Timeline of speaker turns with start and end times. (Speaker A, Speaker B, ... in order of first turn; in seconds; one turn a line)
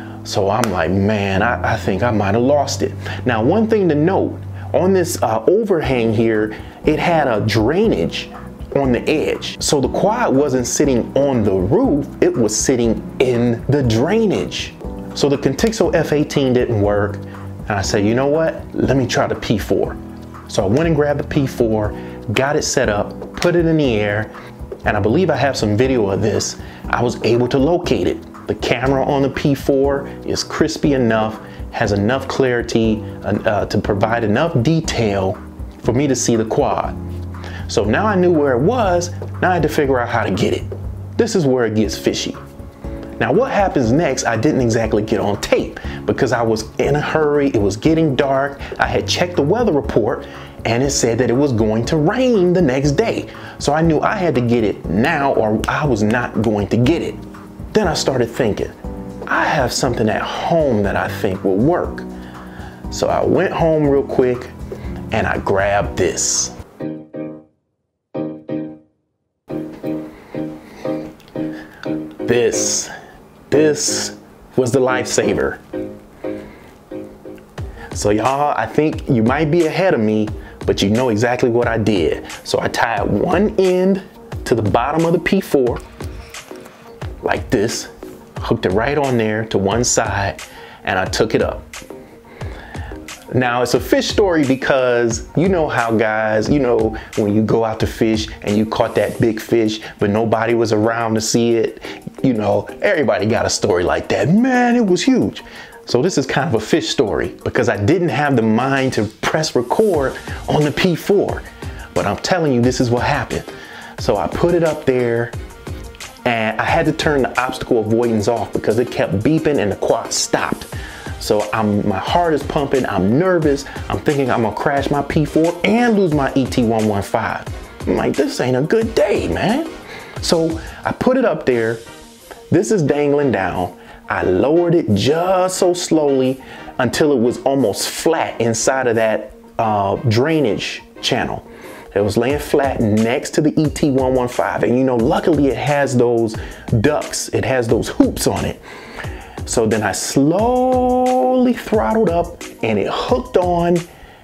Speaker A: 0.2-24.3
Speaker A: 24.8-37.0
Speaker A: 37.7-42.4
Speaker A: 43.2-57.2
Speaker A: 57.7-58.7
Speaker A: 59.2-62.1
Speaker A: 62.9-64.5
Speaker A: 65.1-66.5
Speaker A: 72.2-72.9
Speaker A: 73.5-75.6
Speaker A: 77.9-85.8
Speaker A: 87.2-91.6
Speaker A: 93.3-115.3
Speaker A: 116.2-131.8
Speaker A: 132.5-148.6
Speaker A: 149.4-153.8